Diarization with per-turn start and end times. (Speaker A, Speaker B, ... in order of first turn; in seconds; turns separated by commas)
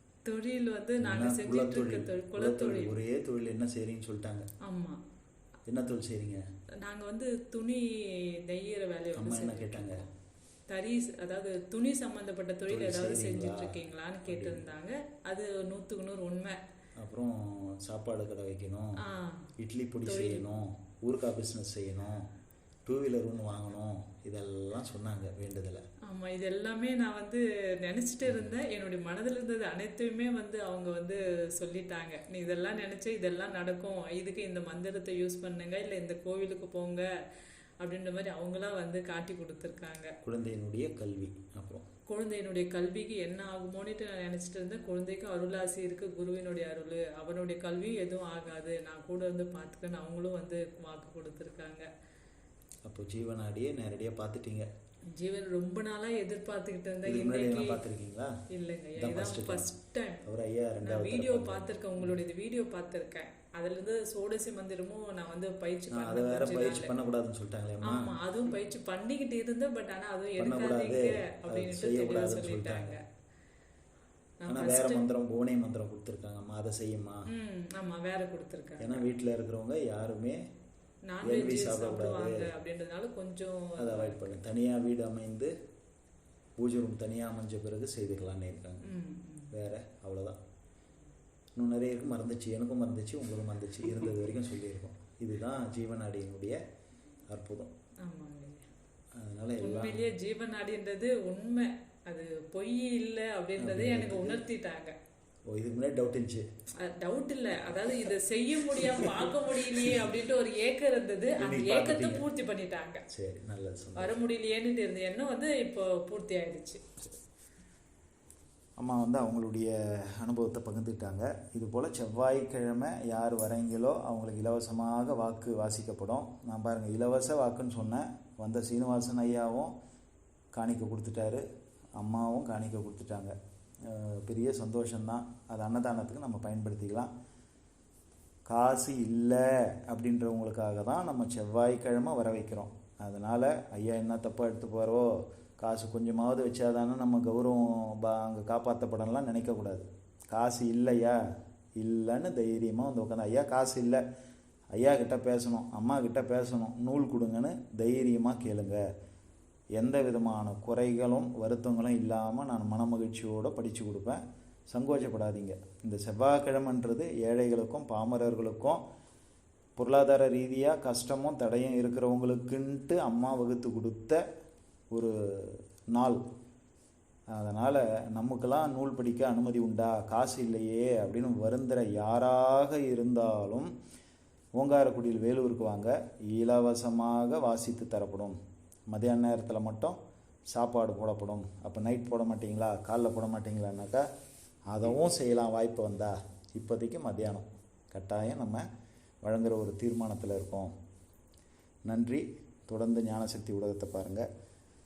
Speaker A: 0.2-3.0, Speaker B: 1.0-4.5, Speaker A: 4.6-5.0, Speaker B: 5.7-6.4, Speaker A: 6.8-10.1, Speaker B: 9.2-10.0, Speaker A: 10.7-16.6, Speaker B: 12.7-13.7, Speaker B: 14.3-14.6, Speaker B: 17.0-19.0, Speaker A: 19.0-19.5, Speaker B: 19.6-22.3, Speaker A: 20.1-20.5, Speaker B: 22.9-25.9, Speaker A: 26.1-37.1, Speaker A: 37.8-40.2, Speaker B: 40.2-41.9, Speaker A: 42.1-51.9, Speaker B: 52.9-54.7, Speaker A: 55.1-57.8, Speaker B: 57.0-58.3, Speaker A: 58.5-60.3, Speaker B: 59.0-59.7, Speaker B: 60.2-62.1, Speaker A: 60.8-66.9, Speaker B: 65.9-68.1, Speaker A: 67.8-73.0, Speaker B: 70.4-73.0, Speaker A: 74.4-75.0, Speaker B: 74.5-77.3, Speaker A: 77.3-79.0, Speaker B: 78.8-80.4, Speaker A: 81.1-84.4, Speaker B: 81.2-82.5, Speaker B: 83.8-85.5, Speaker B: 86.6-88.9, Speaker A: 88.8-89.5, Speaker B: 89.5-90.4, Speaker B: 91.6-96.6, Speaker B: 97.3-97.7, Speaker A: 98.0-98.7, Speaker B: 99.2-100.1, Speaker A: 99.6-105.0, Speaker B: 103.6-104.4, Speaker B: 105.5-106.5, Speaker A: 106.8-113.0, Speaker B: 108.8-110.0, Speaker B: 111.4-112.3, Speaker B: 113.1-114.2, Speaker A: 114.0-116.8, Speaker B: 118.8-129.7, Speaker B: 130.5-131.4, Speaker B: 132.0-137.1, Speaker B: 138.5-151.2, Speaker B: 151.8-154.0, Speaker B: 154.7-158.8, Speaker B: 159.8-168.8, Speaker B: 169.8-174.2, Speaker B: 174.9-176.2, Speaker B: 177.3-183.7, Speaker B: 184.6-188.4, Speaker B: 188.9-190.0, Speaker B: 190.5-194.1, Speaker B: 194.7-198.7, Speaker B: 199.2-200.7, Speaker B: 201.9-204.3